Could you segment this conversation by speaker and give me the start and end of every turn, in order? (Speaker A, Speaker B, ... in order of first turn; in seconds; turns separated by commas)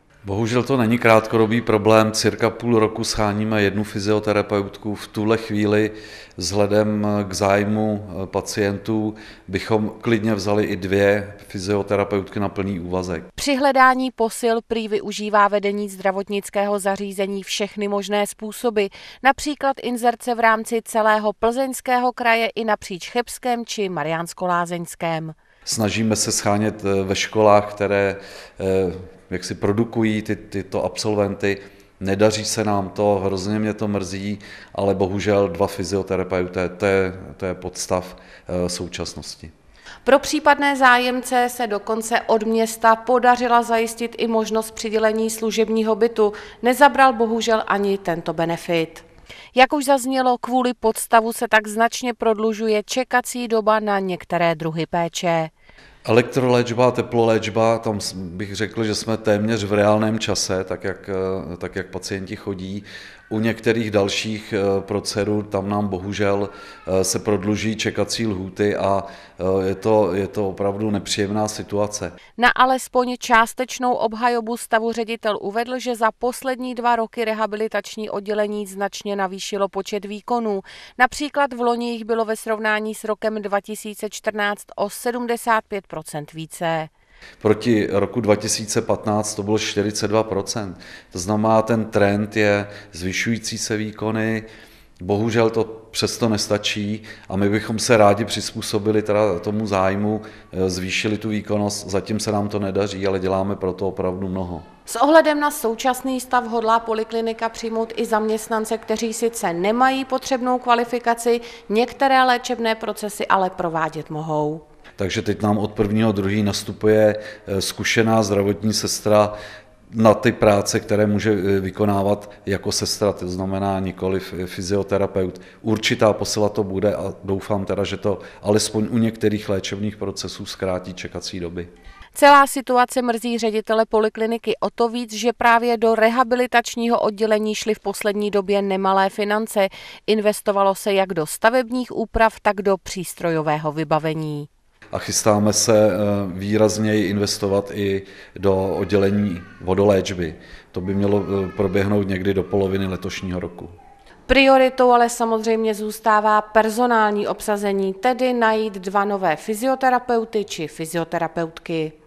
Speaker A: 0.2-13.3, Speaker B: 13.3-25.3, Speaker A: 25.6-39.5, Speaker B: 40.0-55.5, Speaker A: 56.0-72.1, Speaker B: 72.4-86.9, Speaker A: 87.4-94.5, Speaker A: 95.0-104.7, Speaker B: 104.9-114.6, Speaker A: 115.0-119.3, Speaker A: 119.9-131.7, Speaker B: 132.1-144.5, Speaker A: 144.9-153.7, Speaker B: 154.3-161.9